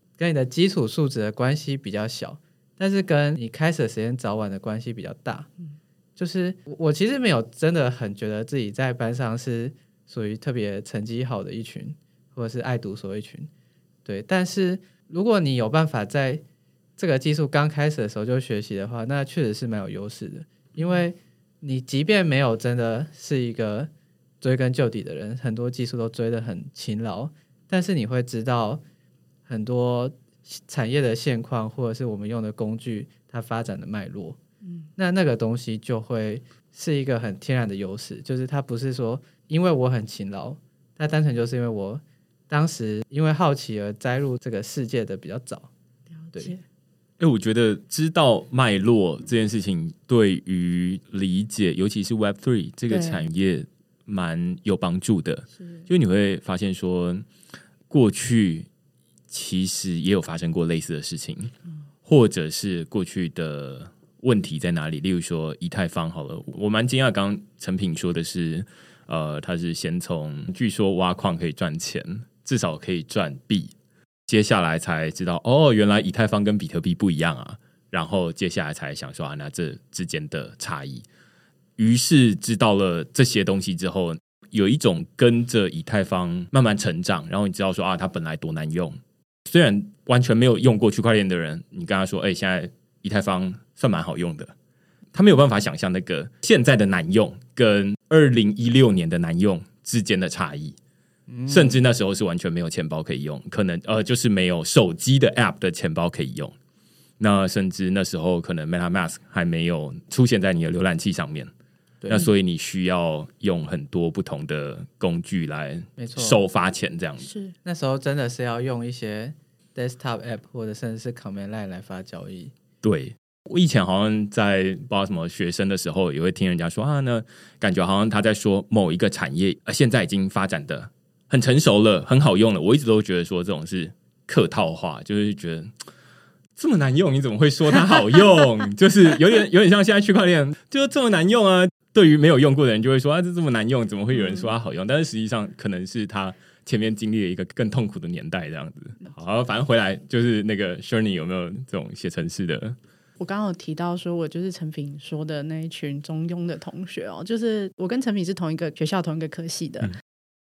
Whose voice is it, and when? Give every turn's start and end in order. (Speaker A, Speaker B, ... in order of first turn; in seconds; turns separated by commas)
Speaker A: 0.2-5.5, Speaker A: 6.2-13.5, Speaker A: 14.0-16.4, Speaker A: 17.0-23.9, Speaker A: 24.4-28.8, Speaker A: 29.4-34.4, Speaker A: 35.0-45.7, Speaker B: 46.2-46.6, Speaker C: 47.2-57.2, Speaker B: 52.9-53.2, Speaker C: 57.9-58.7, Speaker C: 59.3-61.5, Speaker C: 62.0-73.7, Speaker C: 74.3-81.0, Speaker C: 81.8-94.5, Speaker C: 95.1-100.8, Speaker A: 101.3-101.8, Speaker C: 101.5-106.5, Speaker C: 107.2-111.5, Speaker C: 112.0-117.3, Speaker A: 116.0-116.4, Speaker B: 117.2-117.5, Speaker A: 117.6-122.5, Speaker C: 122.8-135.7, Speaker C: 136.6-152.8, Speaker B: 153.2-159.9